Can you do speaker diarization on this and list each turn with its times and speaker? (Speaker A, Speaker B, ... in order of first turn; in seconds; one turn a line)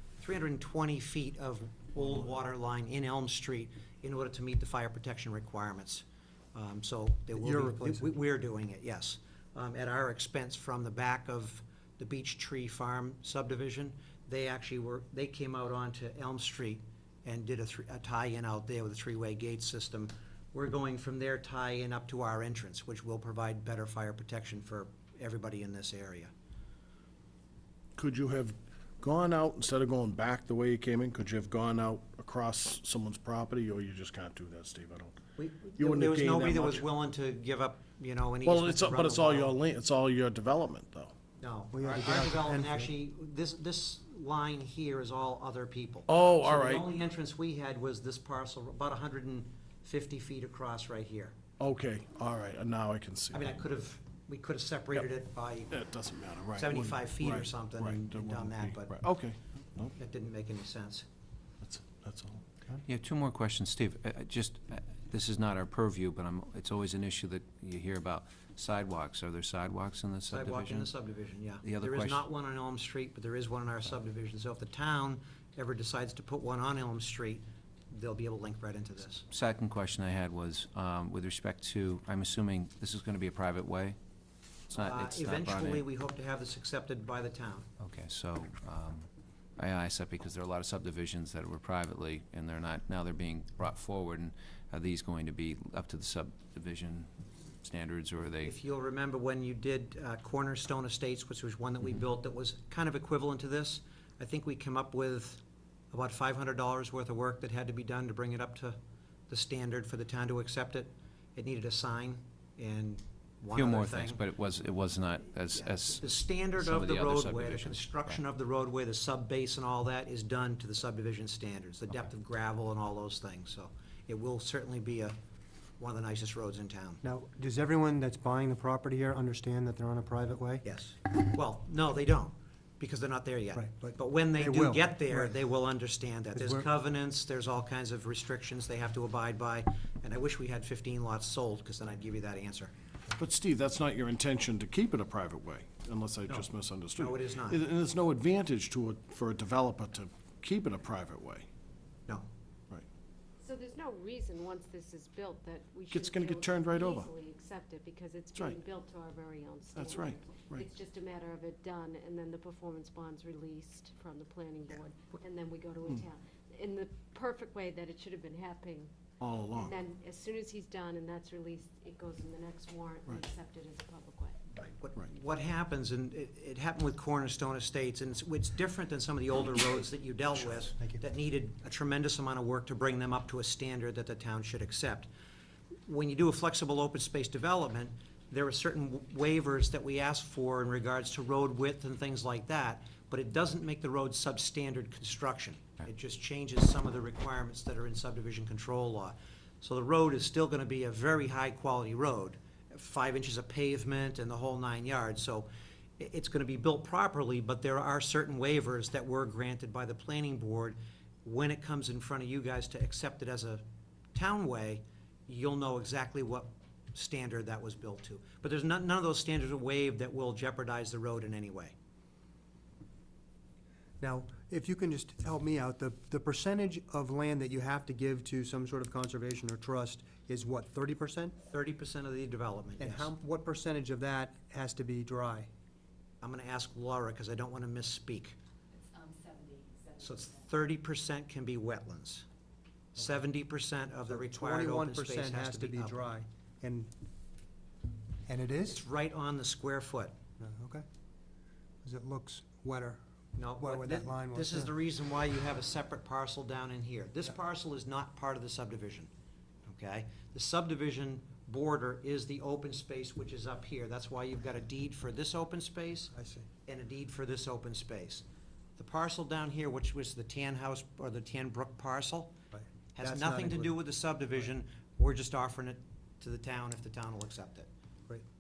Speaker A: 0.2-26.3
Speaker B: 7.3-8.1
Speaker C: 28.0-35.2
Speaker A: 35.4-39.6
Speaker C: 35.8-36.9
Speaker C: 38.5-41.1
Speaker A: 41.4-51.4
Speaker B: 41.7-42.9
Speaker C: 46.1-46.9
Speaker C: 51.6-53.5
Speaker A: 53.3-55.7
Speaker C: 55.7-59.9
Speaker A: 56.6-59.0
Speaker A: 60.0-61.1
Speaker C: 61.6-62.5
Speaker D: 62.9-70.9
Speaker A: 70.3-79.3
Speaker D: 71.6-72.2
Speaker D: 79.3-84.0
Speaker D: 84.7-85.8
Speaker A: 84.7-87.7
Speaker D: 87.8-97.1
Speaker D: 97.6-98.6
Speaker A: 98.5-105.4
Speaker A: 105.9-108.8
Speaker A: 109.3-114.2
Speaker D: 113.5-118.2
Speaker A: 115.5-125.2
Speaker A: 125.8-127.0
Speaker B: 127.0-130.6
Speaker A: 130.6-142.7
Speaker B: 133.6-135.4
Speaker B: 136.4-136.7
Speaker C: 143.2-151.5
Speaker A: 146.3-147.6
Speaker E: 153.4-168.9
Speaker C: 155.9-157.1
Speaker C: 159.8-160.7
Speaker C: 169.2-169.7
Speaker E: 169.6-174.5
Speaker A: 174.6-185.1
Speaker B: 180.8-181.0
Speaker A: 185.9-213.6
Speaker A: 214.1-221.8
Speaker B: 224.0-231.3
Speaker A: 231.5-233.1
Speaker B: 232.8-235.5
Speaker A: 236.2-238.3
Speaker A: 240.0-242.3
Speaker A: 242.9-246.1
Speaker B: 244.1-246.9
Speaker B: 248.3-248.8
Speaker A: 248.7-250.1
Speaker B: 250.4-250.8
Speaker B: 251.8-253.0
Speaker A: 253.4-259.1
Speaker B: 253.6-254.7
Speaker A: 259.7-266.1
Speaker B: 266.1-266.5
Speaker A: 266.6-268.2
Speaker A: 268.8-272.3
Speaker B: 272.5-273.8
Speaker A: 272.9-277.7